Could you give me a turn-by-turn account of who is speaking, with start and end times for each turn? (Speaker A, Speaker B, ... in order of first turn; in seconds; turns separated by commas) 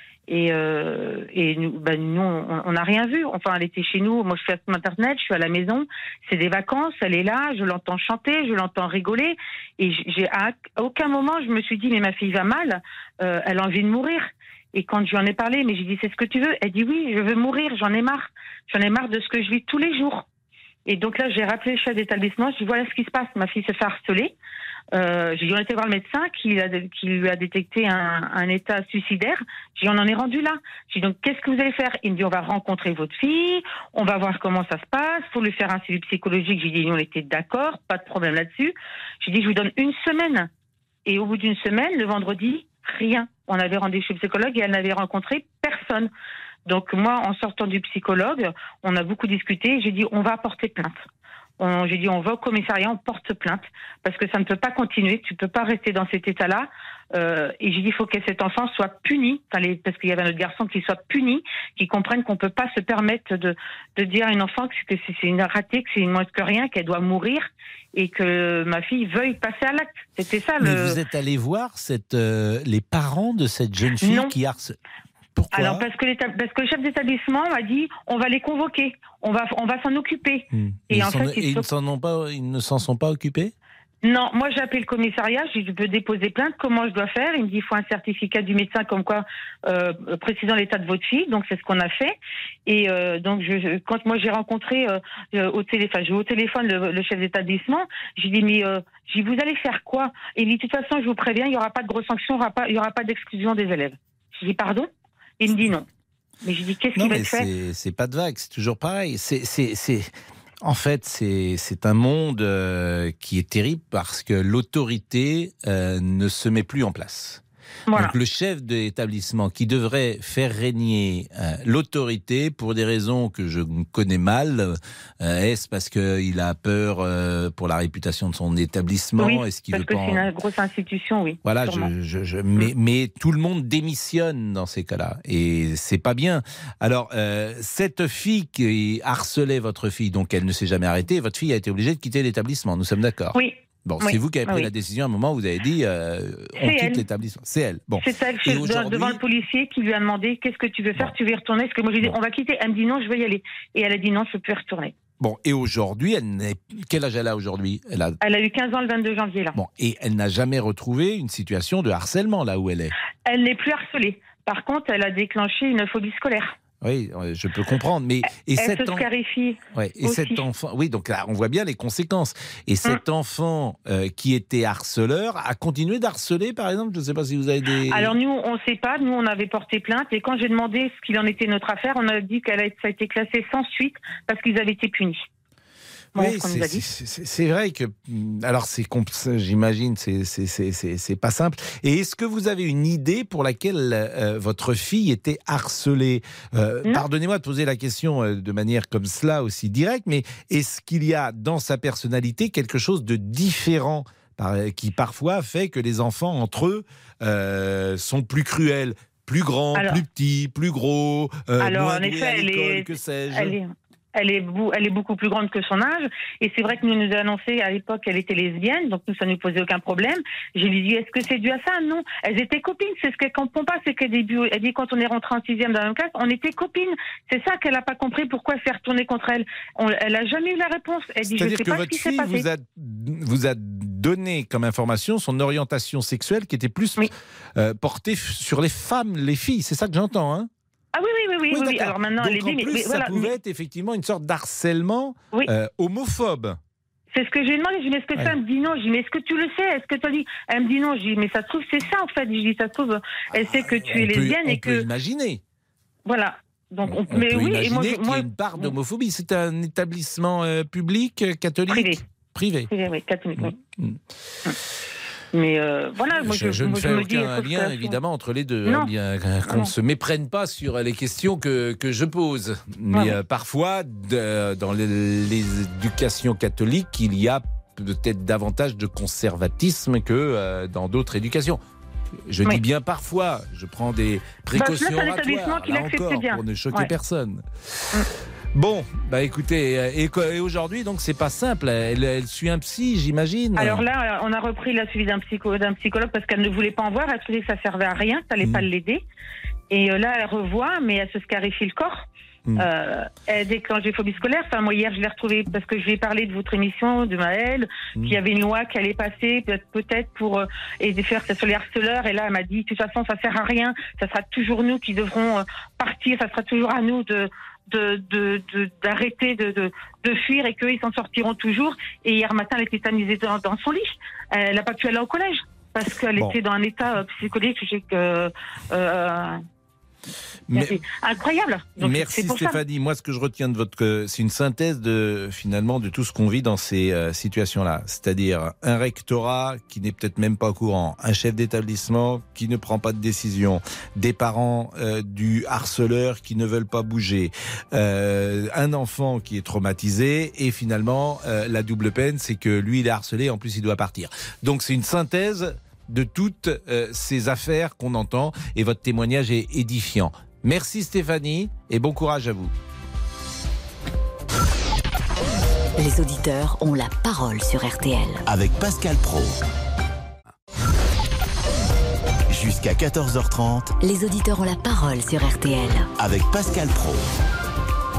Speaker A: 0.3-20.2, Speaker A: 20.9-24.3, Speaker A: 24.9-40.5, Speaker A: 41.1-46.1, Speaker A: 46.7-51.0, Speaker A: 51.6-71.0, Speaker B: 70.6-74.8, Speaker A: 74.0-74.3, Speaker B: 75.3-75.8, Speaker A: 75.5-81.7, Speaker B: 80.5-83.5, Speaker A: 84.0-92.1, Speaker A: 92.7-104.9, Speaker A: 105.4-105.9, Speaker A: 106.4-107.5, Speaker B: 107.0-110.1, Speaker B: 110.6-117.4, Speaker B: 117.9-130.3, Speaker A: 129.2-131.9, Speaker B: 131.4-149.2, Speaker A: 143.4-144.7, Speaker A: 146.6-147.0, Speaker A: 148.0-155.0, Speaker B: 155.2-158.2, Speaker A: 158.2-159.6, Speaker B: 159.6-162.9, Speaker A: 163.3-166.6, Speaker B: 166.8-169.1, Speaker A: 168.6-170.4, Speaker B: 169.7-178.2, Speaker A: 177.9-185.2, Speaker A: 186.2-186.8, Speaker B: 186.2-213.6, Speaker A: 209.8-210.0, Speaker A: 211.6-232.5, Speaker B: 231.3-240.5, Speaker A: 240.9-243.3, Speaker B: 241.5-246.6, Speaker A: 247.1-254.8, Speaker B: 253.4-255.4, Speaker A: 256.1-258.8, Speaker B: 256.9-262.7, Speaker A: 261.7-262.0, Speaker A: 262.7-263.5, Speaker B: 263.4-264.0, Speaker A: 265.3-268.0, Speaker B: 266.2-281.6, Speaker B: 282.3-287.4, Speaker A: 284.5-286.9, Speaker B: 288.5-293.8, Speaker A: 293.6-299.0, Speaker A: 299.7-302.1, Speaker A: 302.6-329.4, Speaker B: 330.5-330.8, Speaker A: 330.5-332.6, Speaker B: 331.8-362.5, Speaker C: 365.8-368.2, Speaker D: 368.3-369.4, Speaker D: 372.3-373.8, Speaker C: 373.8-375.9, Speaker D: 376.0-377.1